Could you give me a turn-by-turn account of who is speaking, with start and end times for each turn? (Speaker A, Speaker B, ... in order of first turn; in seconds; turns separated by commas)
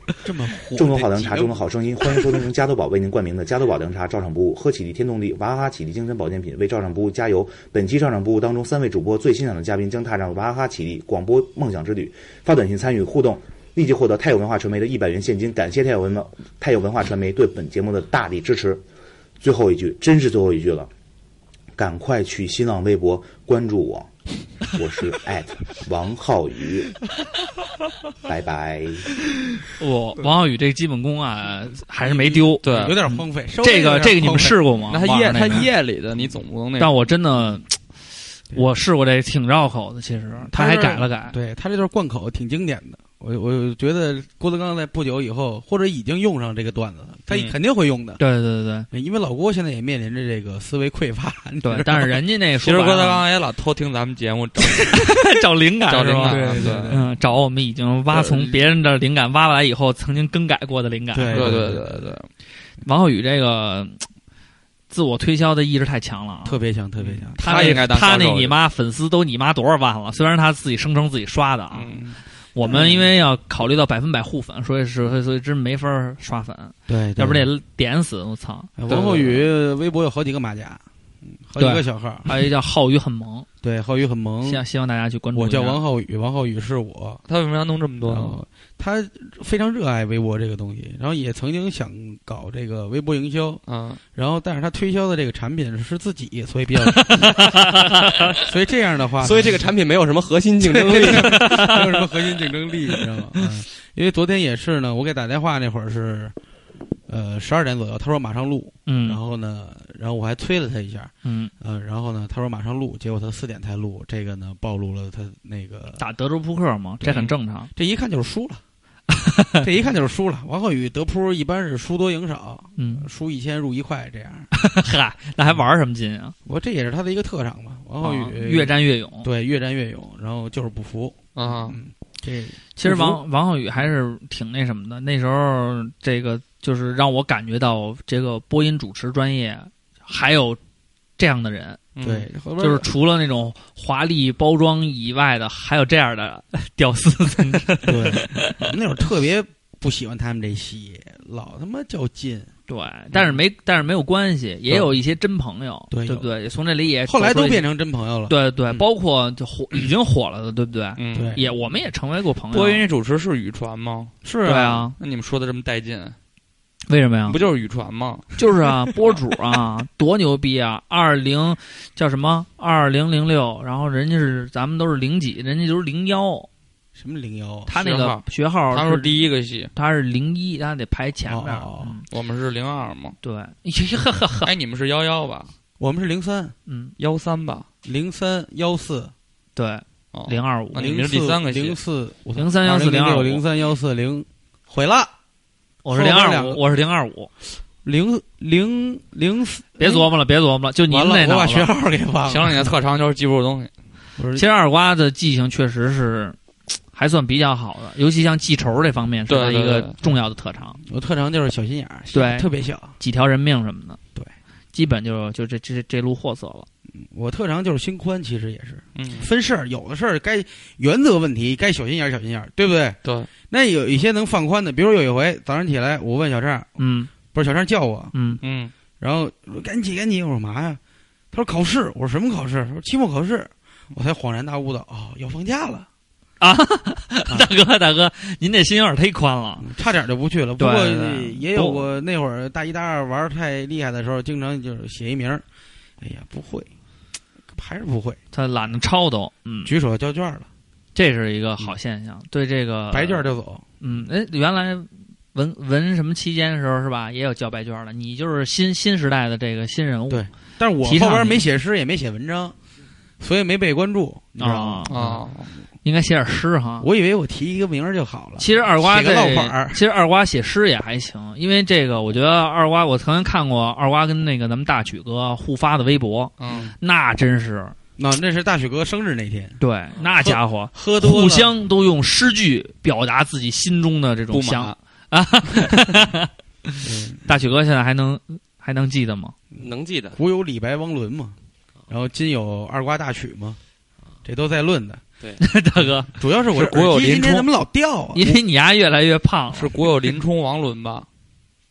Speaker A: 0.2-1.6, Speaker B: 0.8-18.8, Speaker B: 19.4-20.9, Speaker B: 21.8-24.1, Speaker B: 24.7-27.0, Speaker B: 28.2-29.1, Speaker C: 29.8-35.7, Speaker A: 32.0-34.6, Speaker D: 32.6-33.0, Speaker D: 34.9-36.9, Speaker C: 36.8-37.8, Speaker C: 38.5-41.4, Speaker A: 40.4-48.2, Speaker D: 47.3-47.6, Speaker C: 48.2-48.9, Speaker A: 48.9-52.1, Speaker C: 51.6-53.2, Speaker D: 52.6-55.0, Speaker C: 54.9-61.6, Speaker D: 55.9-57.0, Speaker A: 56.2-57.1, Speaker D: 58.1-58.6, Speaker A: 61.1-62.1, Speaker D: 61.3-62.3, Speaker C: 62.9-64.0, Speaker C: 64.9-66.6, Speaker A: 66.5-67.9, Speaker D: 67.0-68.6, Speaker C: 67.4-71.9, Speaker D: 71.7-72.2, Speaker C: 72.5-78.7, Speaker A: 72.6-73.1, Speaker A: 76.9-77.5, Speaker A: 78.8-82.5, Speaker D: 78.9-79.4, Speaker C: 81.6-83.5, Speaker A: 83.6-84.6, Speaker C: 84.4-85.8, Speaker A: 85.3-87.2, Speaker D: 87.3-88.4, Speaker A: 88.1-97.7, Speaker D: 93.7-94.0, Speaker C: 97.0-97.9, Speaker A: 98.4-99.6, Speaker E: 99.2-101.5, Speaker A: 100.6-106.3, Speaker C: 101.3-101.8, Speaker A: 107.1-116.0, Speaker C: 108.9-109.2, Speaker C: 111.2-111.5, Speaker C: 116.0-117.7, Speaker A: 117.0-118.6, Speaker C: 119.1-119.6, Speaker A: 119.6-124.5, Speaker C: 122.8-123.1, Speaker C: 124.5-126.3, Speaker A: 126.5-133.2, Speaker C: 128.0-129.3, Speaker D: 131.3-131.8, Speaker C: 132.8-140.6, Speaker C: 141.2-141.8, Speaker D: 141.9-142.3, Speaker A: 142.0-142.9, Speaker C: 142.6-148.6, Speaker A: 147.9-152.5, Speaker C: 152.7-157.7, Speaker A: 155.9-156.3, Speaker A: 157.1-158.3, Speaker C: 158.3-162.9, Speaker D: 161.0-161.4, Speaker A: 161.1-161.4, Speaker D: 162.5-164.2, Speaker A: 164.2-164.9, Speaker C: 164.4-165.0, Speaker D: 165.0-166.2, Speaker C: 166.9-167.4, Speaker D: 167.3-168.3, Speaker C: 168.4-176.5, Speaker A: 176.9-177.7, Speaker C: 177.7-182.1, Speaker D: 177.8-179.7, Speaker A: 181.3-182.0, Speaker D: 182.1-183.2, Speaker C: 183.2-184.5, Speaker D: 184.4-185.5, Speaker A: 185.8-186.6, Speaker C: 186.7-186.9, Speaker D: 187.0-187.7, Speaker A: 187.8-189.1, Speaker C: 189.6-190.9, Speaker D: 190.1-191.8, Speaker A: 190.8-195.1, Speaker C: 192.4-193.4, Speaker C: 195.8-197.3, Speaker A: 195.9-196.6, Speaker A: 197.8-200.1, Speaker C: 199.8-201.7, Speaker A: 200.9-202.7, Speaker D: 202.2-203.7, Speaker A: 204.2-204.5, Speaker C: 204.4-206.4, Speaker C: 206.9-210.8, Speaker D: 209.3-209.9, Speaker A: 210.8-212.9, Speaker C: 212.1-214.0, Speaker C: 214.7-216.7, Speaker A: 216.9-228.2, Speaker D: 219.0-219.3, Speaker D: 223.0-223.3, Speaker C: 226.8-227.1, Speaker C: 228.1-228.4, Speaker D: 228.4-228.7, Speaker A: 229.0-230.8, Speaker A: 231.3-235.9, Speaker C: 236.4-239.7, Speaker A: 239.6-245.4, Speaker C: 240.6-241.8, Speaker A: 246.0-246.7, Speaker A: 247.5-248.2, Speaker C: 248.3-249.7, Speaker A: 249.6-250.5, Speaker C: 250.9-260.2, Speaker A: 252.9-253.7, Speaker A: 260.1-262.6, Speaker C: 260.8-261.4, Speaker A: 263.2-265.3, Speaker C: 264.4-264.9, Speaker D: 264.9-265.5, Speaker C: 265.8-266.9, Speaker A: 266.8-269.8, Speaker C: 268.4-277.8, Speaker D: 276.4-276.7, Speaker A: 276.5-276.8, Speaker A: 278.0-281.5, Speaker C: 279.6-289.4, Speaker D: 284.3-284.8, Speaker A: 286.8-287.2, Speaker A: 289.5-291.4, Speaker E: 289.6-290.2, Speaker A: 291.9-293.6, Speaker A: 294.2-295.0, Speaker C: 295.4-296.1, Speaker A: 296.1-298.4, Speaker D: 296.5-297.5, Speaker C: 298.1-299.8, Speaker D: 299.5-301.1